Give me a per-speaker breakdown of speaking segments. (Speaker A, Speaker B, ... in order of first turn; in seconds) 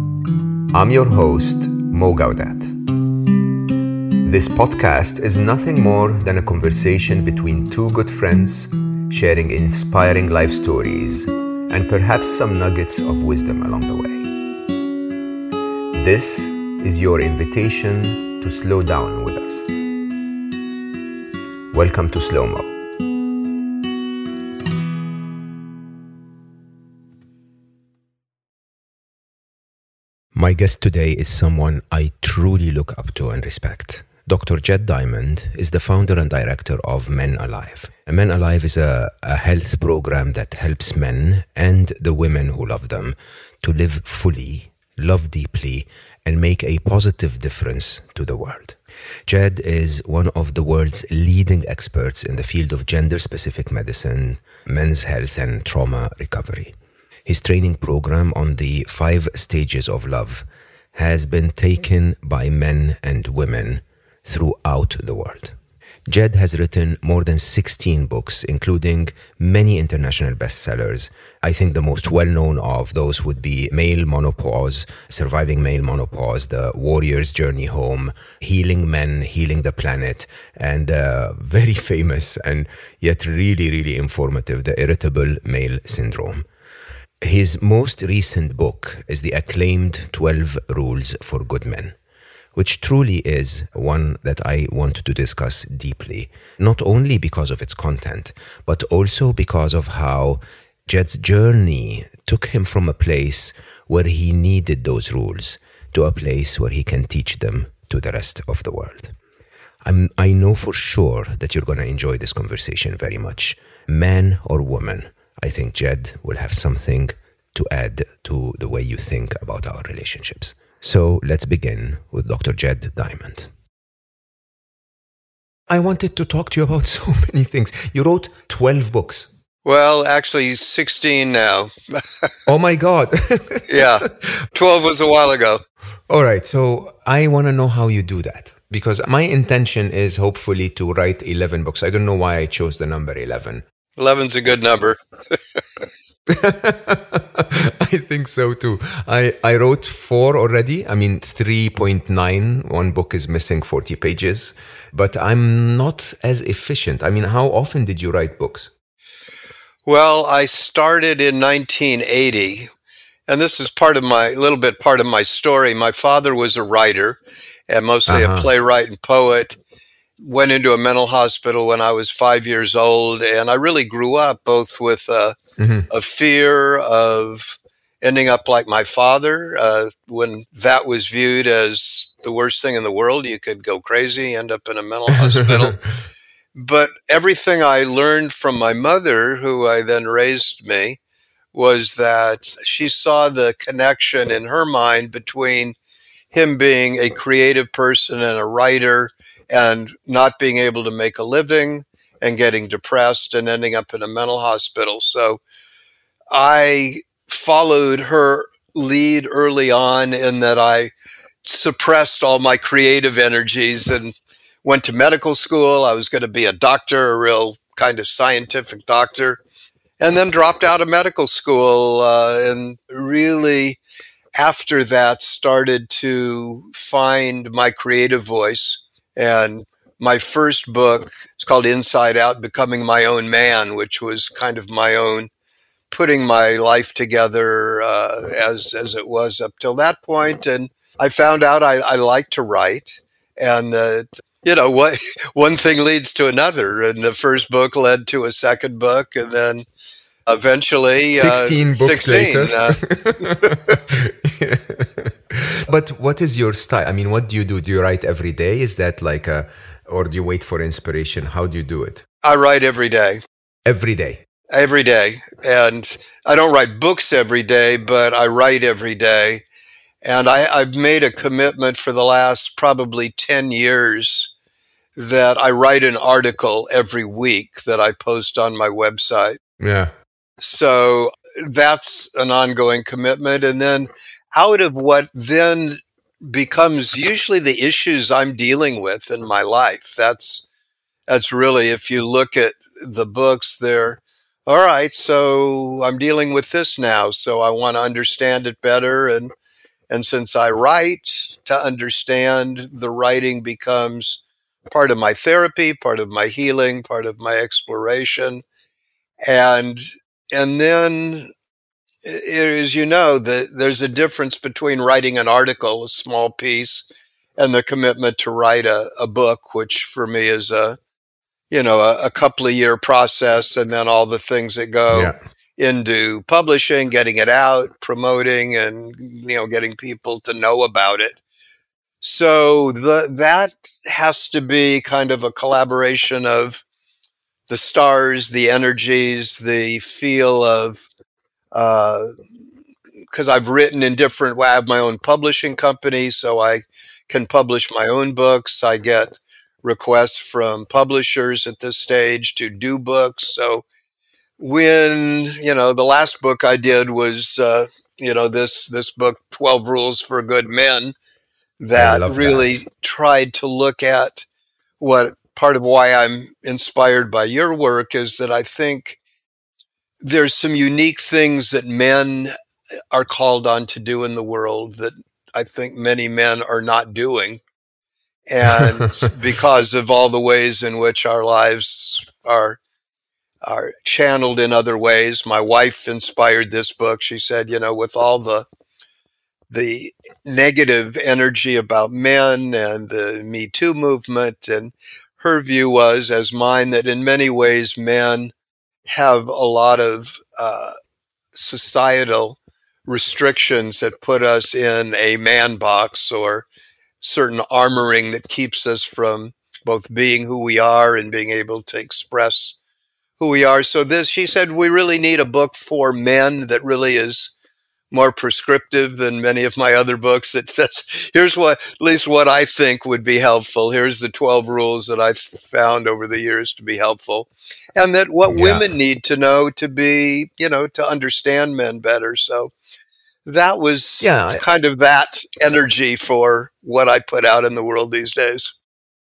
Speaker A: 0.7-2.9, 4.2-14.3, 15.9-19.7, 21.7-22.7, 30.3-56.7, 57.3-65.5, 66.1-86.5, 87.2-92.0, 92.5-109.1, 109.8-123.5, 125.7-129.3, 132.5-134.0, 136.1-143.6, 146.3-158.7, 168.1-168.5, 175.6-175.9, 185.2-185.8, 251.1-262.0, 263.6-264.2, 279.6-279.9, 324.9-325.2, 361.8-362.6, 428.3-428.7, 434.0-434.4
Speaker B: 129.7-132.0, 133.7-135.6, 144.0-145.0, 159.9-162.7, 163.3-169.6, 170.2-175.4, 175.9-185.8, 186.6-191.0, 191.5-195.8, 196.3-205.4, 206.3-210.9, 211.4-219.4, 220.0-223.8, 224.4-235.3, 235.9-249.7, 250.2-253.6, 262.2-263.2, 264.5-269.4, 270.0-274.3, 274.9-279.4, 280.4-290.5, 291.1-299.3, 299.9-308.4, 309.2-311.3, 312.0-320.8, 321.5-331.2, 332.0-336.6, 337.5-340.8, 341.5-342.1, 343.1-353.6, 354.4-360.9, 361.6-364.2, 364.8-369.0, 370.0-372.3, 372.9-377.4, 378.3-382.6, 383.4-388.5, 389.5-398.3, 398.9-400.7, 401.3-406.5, 407.0-412.6, 413.2-417.3, 417.9-432.5, 433.2-438.5